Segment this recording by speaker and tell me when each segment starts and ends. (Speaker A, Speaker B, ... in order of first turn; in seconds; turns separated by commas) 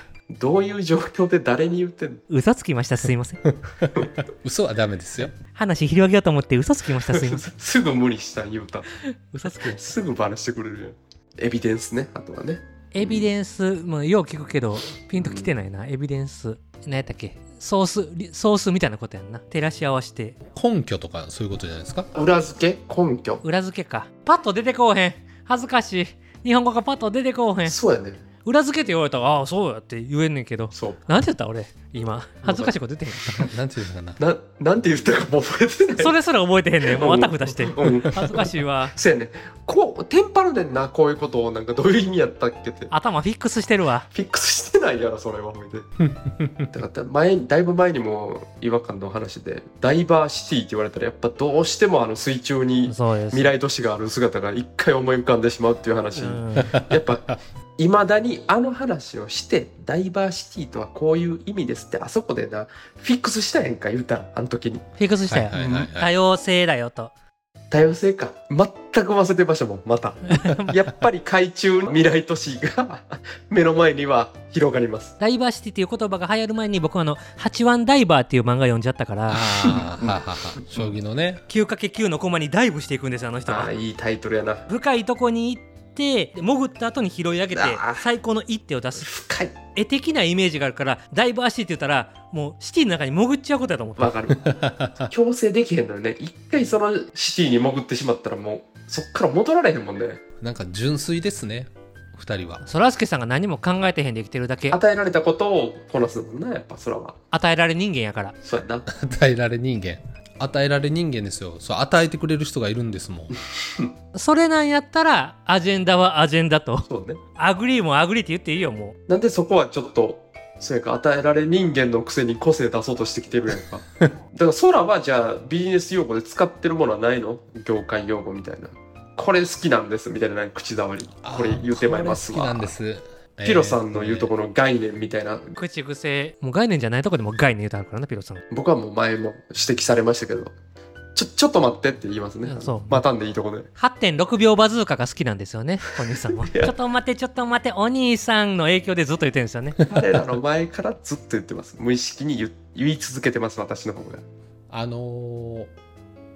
Speaker A: 0.3-2.2, Speaker B: 2.3-3.4, Speaker C: 3.5-5.3, Speaker B: 5.4-7.5, Speaker A: 7.0-8.9, Speaker B: 9.0-9.8, Speaker A: 9.6-13.3, Speaker B: 12.9-20.4, Speaker A: 15.1-15.5, Speaker C: 20.5-22.1, Speaker A: 22.1-23.4, Speaker B: 23.4-27.8, Speaker A: 27.6-28.2, Speaker B: 28.4-33.5, Speaker A: 30.7-31.0, Speaker A: 32.4-32.7, Speaker C: 33.4-34.2, Speaker A: 34.2-36.2, Speaker B: 36.0-38.9, Speaker A: 36.9-42.9, Speaker B: 42.9-44.1, Speaker A: 44.1-45.9, Speaker C: 46.1-46.7, Speaker A: 46.7-64.9, Speaker B: 52.9-53.5, Speaker B: 56.1-56.7, Speaker B: 65.0-67.1, Speaker C: 65.3-66.1, Speaker A: 65.5-65.9, Speaker A: 67.7-75.1, Speaker B: 70.3-70.8, Speaker B: 75.2-79.5, Speaker C: 79.3-81.4, Speaker A: 79.6-80.2, Speaker B: 81.5-83.7, Speaker A: 83.5-84.7, Speaker B: 84.7-89.1, Speaker A: 87.5-88.1, Speaker A: 89.0-89.6, Speaker B: 89.7-94.2, Speaker A: 94.0-100.2, Speaker C: 94.3-95.1, Speaker C: 100.4-102.6, Speaker B: 102.6-104.8, Speaker A: 104.7-107.2, Speaker B: 107.3-108.4, Speaker A: 108.4-108.9, Speaker C: 108.9-113.3, Speaker A: 113.5-113.9, Speaker B: 114.1-116.8, Speaker A: 116.8-117.2, Speaker B: 117.4-119.0, Speaker A: 119.1-132.8, Speaker C: 131.2-134.3, Speaker A: 133.4-135.6, Speaker B: 135.6-138.4, Speaker A: 138.5-140.5, Speaker A: 141.2-143.7, Speaker B: 142.4-143.1, Speaker B: 143.8-149.8, Speaker A: 146.4-146.7, Speaker A: 149.9-154.2, Speaker C: 154.7-155.7